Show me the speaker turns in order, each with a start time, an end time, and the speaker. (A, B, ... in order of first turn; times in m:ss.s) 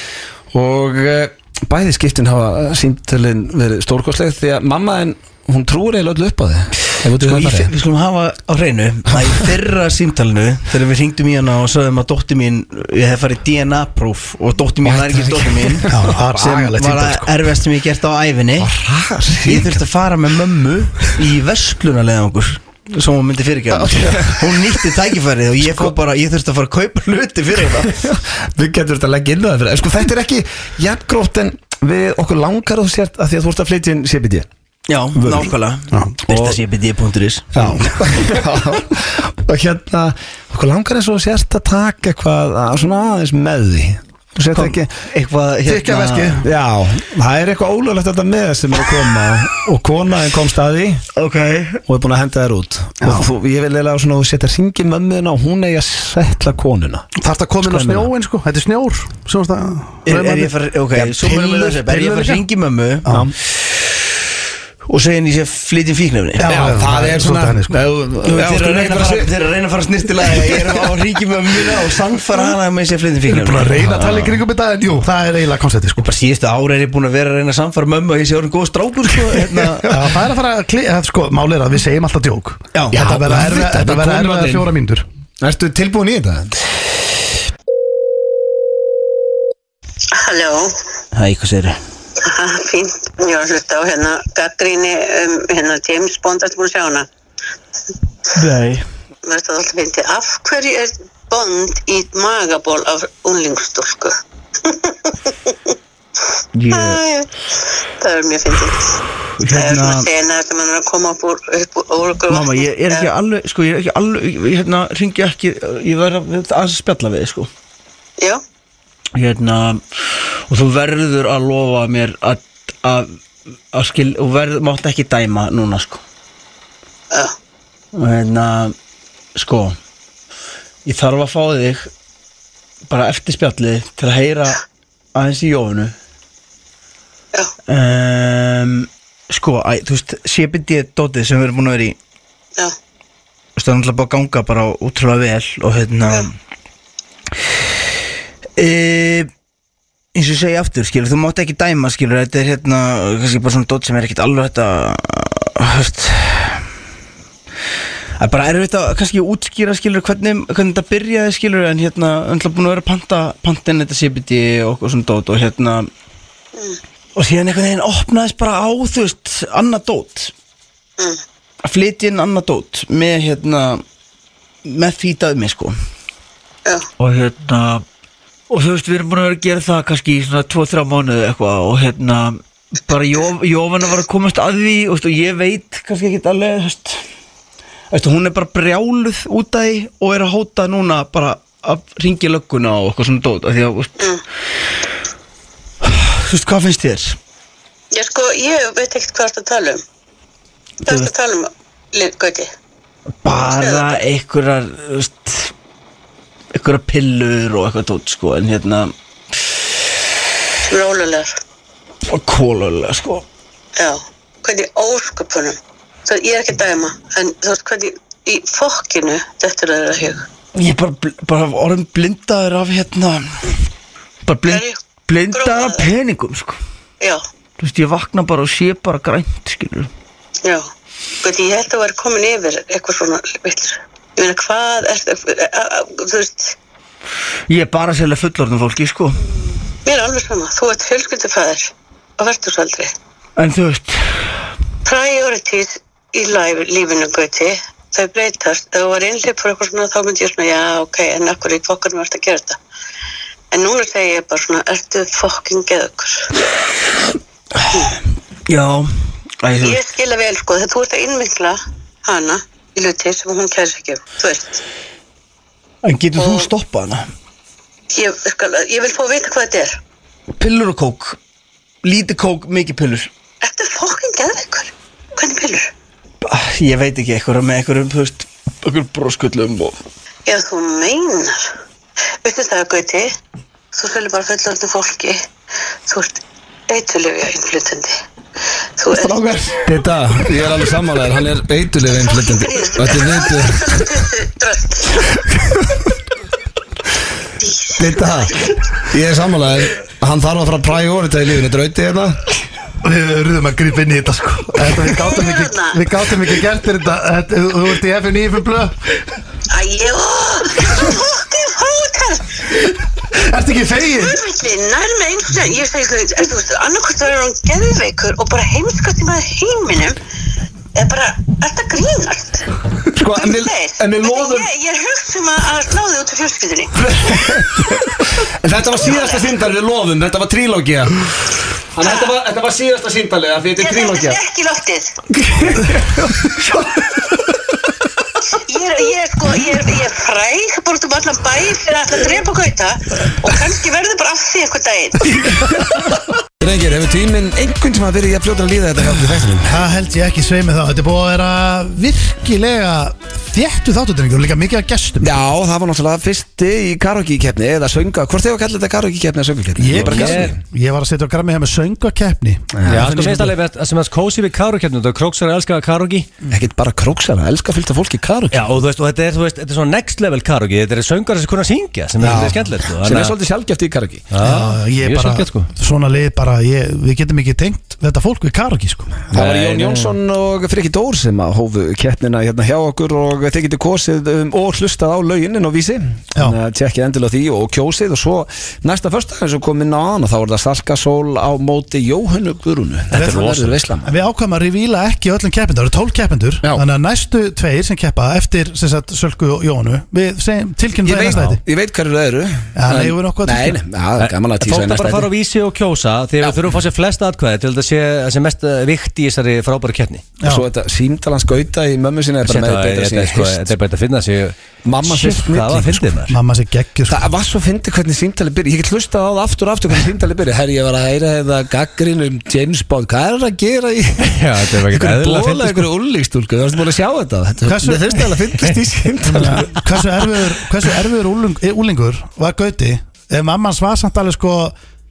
0:00.5-0:07.7 A
0:07.1-0:18.7 B
0:14.8-0:16.2 A
0:15.9-0:17.5 C
0:18.6-0:19.8 A
0:19.4-0:28.0 B
0:23.7-0:24.8 A
0:25.6-0:25.9 A
0:27.9-0:34.5 A
0:34.9-0:37.8 B
0:35.2-0:35.5 A
0:35.9-0:36.2 C
0:36.3-0:36.6 A
0:37.6-0:44.9 A
0:37.6-0:37.9 C
0:44.5-0:46.4 B
0:45.7-0:46.4 C
0:46.4-0:51.0 A
0:51.2-0:51.8 B
0:51.9-0:57.1 A
0:53.0-0:53.3 C
0:57.2-1:00.5 C
0:57.6-0:58.1 A
1:00.0-1:03.1 B
1:01.2-1:02.4 C
1:04.9-1:06.8 B
1:06.4-1:07.8 C
1:06.4-1:09.3 A
1:08.2-1:14.4 B
1:10.3-1:10.6 A
1:13.3-1:16.1 C
1:16.0-1:20.0 B
1:19.9-1:25.1 C
1:22.7-1:23.0 B
1:22.9-1:24.7 A
1:25.4-1:26.6 A
1:30.1-1:30.8 D
1:31.1-1:31.8 B
1:32.2-1:37.1 D
1:38.4-1:38.8 B
1:39.2-1:44.1 D
1:44.6-1:45.7 D
1:46.6-1:47.0 B
1:46.7-1:47.3 D
1:48.0-1:53.1 D
1:49.4-1:50.1 B
1:52.3-1:57.5 B
1:59.2-2:03.1 B
2:03.7-2:06.0 B
2:07.9-2:08.8 B
2:09.4-2:09.8 B
2:10.8-2:11.9 B
2:12.9-2:14.6 B
2:15.2-2:15.9 B
2:17.7-2:22.0 B
2:23.6-2:26.3 B
2:28.6-2:29.3 B
2:30.2-2:36.6 B
2:38.2-2:45.9 B
2:47.2-2:50.3 B
2:51.6-2:53.8 B
2:54.6-2:55.7 B
2:57.0-2:57.8 B
2:58.5-3:07.0 B
3:07.9-3:14.0 B
3:15.8-3:17.2 B
3:17.9-3:19.8 D
3:20.8-3:22.5 D
3:23.2-3:25.5 B
3:23.4-3:24.0 D
3:26.5-3:28.9 B
3:30.7-3:31.3 D
3:32.1-3:33.3 B
3:33.8-3:40.3 D
3:40.6-3:43.6 B
3:44.3-3:46.6 B
3:44.5-3:45.9 D
3:47.6-3:49.9 B
3:51.2-3:56.6 D
3:57.5-3:59.2 B
3:59.8-4:02.9 D
4:03.4-4:04.2 B
4:04.8-4:12.6 D
4:13.5-4:16.3 D
4:18.5-4:18.9 B
4:19.4-4:19.8 B
4:19.6-4:24.6 D
4:25.8-4:27.1 B
4:26.2-4:26.5 D
4:27.9-4:29.8 D
4:30.4-4:31.2 B
4:31.8-4:33.1 B
4:33.4-4:35.7 D
4:36.2-4:39.8 B
4:40.3-4:41.5 D
4:42.2-4:43.1 D
4:43.7-4:45.2 D
4:45.9-4:48.0 D
4:48.8-4:49.6 D
4:49.6-4:53.9 A
4:51.9-4:55.1 D
4:57.4-4:58.6 D
4:57.8-5:02.2 A
5:02.8-5:08.8 C
5:04.9-5:05.8 D
5:09.5-5:12.4 D
5:13.1-5:14.2 C
5:13.9-5:20.0 D
5:20.8-5:22.5 D
5:23.0-5:24.5 A
5:23.1-5:27.3 D
5:26.8-5:31.1 A
5:28.6-5:29.3 D
5:31.7-5:34.2 A
5:31.8-5:32.2 D
5:33.6-5:35.0 D
5:35.2-5:37.2 A
5:38.3-5:45.4 D
5:45.5-5:49.6 A
5:49.4-5:55.2 C
5:55.0-6:00.4 A
5:59.6-6:03.3 C
5:59.8-6:00.3 E
6:02.5-6:03.2 A
6:02.7-6:06.1 E
6:06.3-6:08.5 A
6:08.3-6:13.1 E
6:12.0-6:14.1 A
6:14.1-6:15.5 E
6:14.2-6:19.0 C
6:19.1-6:33.9 A
6:19.1-6:20.0 E
6:32.9-6:33.6 E
6:32.9-6:33.3 C
6:33.8-6:41.4 C
6:40.8-6:45.1 A
6:42.6-6:43.6 C
6:44.0-6:50.0 E
6:50.2-6:50.4 C
6:50.2-6:53.5 A
6:52.2-6:56.2 E
6:54.6-6:55.9 A
6:56.1-6:57.1 C
6:56.9-7:10.0 A
7:04.0-7:05.7 E
7:07.4-7:08.3 C
7:09.0-7:14.6 C